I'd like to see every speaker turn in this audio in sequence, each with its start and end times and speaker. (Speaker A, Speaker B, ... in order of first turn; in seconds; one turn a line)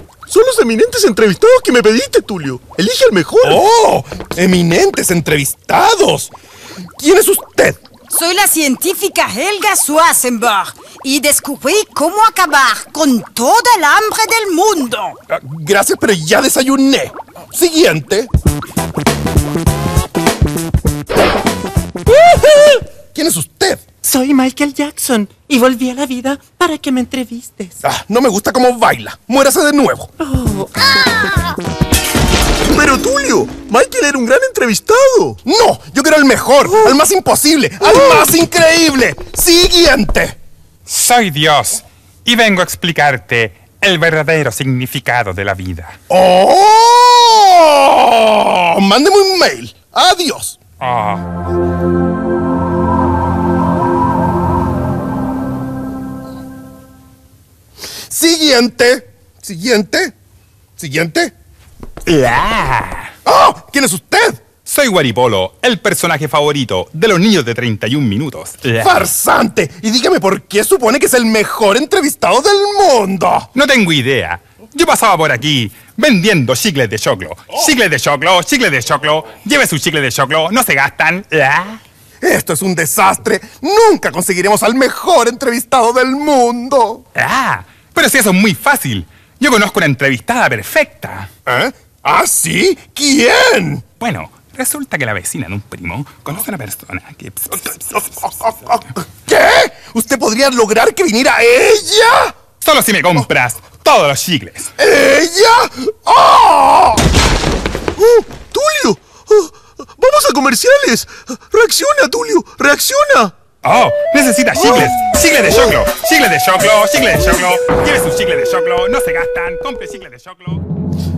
Speaker A: 0.3-3.6
Speaker B: 3.4-6.3
Speaker B: 7.0-7.8
Speaker C: 8.1-15.2
Speaker B: 15.3-18.3
Speaker B: 23.1-23.8
Speaker D: 24.0-27.8
Speaker B: 27.8-30.1
Speaker D: 30.2-30.8
Speaker A: 32.6-35.4
Speaker B: 35.4-40.4
Speaker E: 40.9-46.0
Speaker B: 46.1-50.6
Speaker E: 50.8-51.2
Speaker B: 58.1-60.1
Speaker B: 60.8-61.3
Speaker E: 62.1-63.1
Speaker B: 63.2-64.4
Speaker E: 64.7-69.0
Speaker B: 68.8-73.5
Speaker E: 73.5-81.8
Speaker B: 82.2-87.0
Speaker E: 87.2-91.3
Speaker B: 91.5-93.8
Speaker E: 94.0-98.0
Speaker B: 98.2-102.3
Speaker E: 102.6-104.7
Speaker B: 104.8-107.0
Speaker A: 108.0-113.3
Speaker E: 113.6-120.6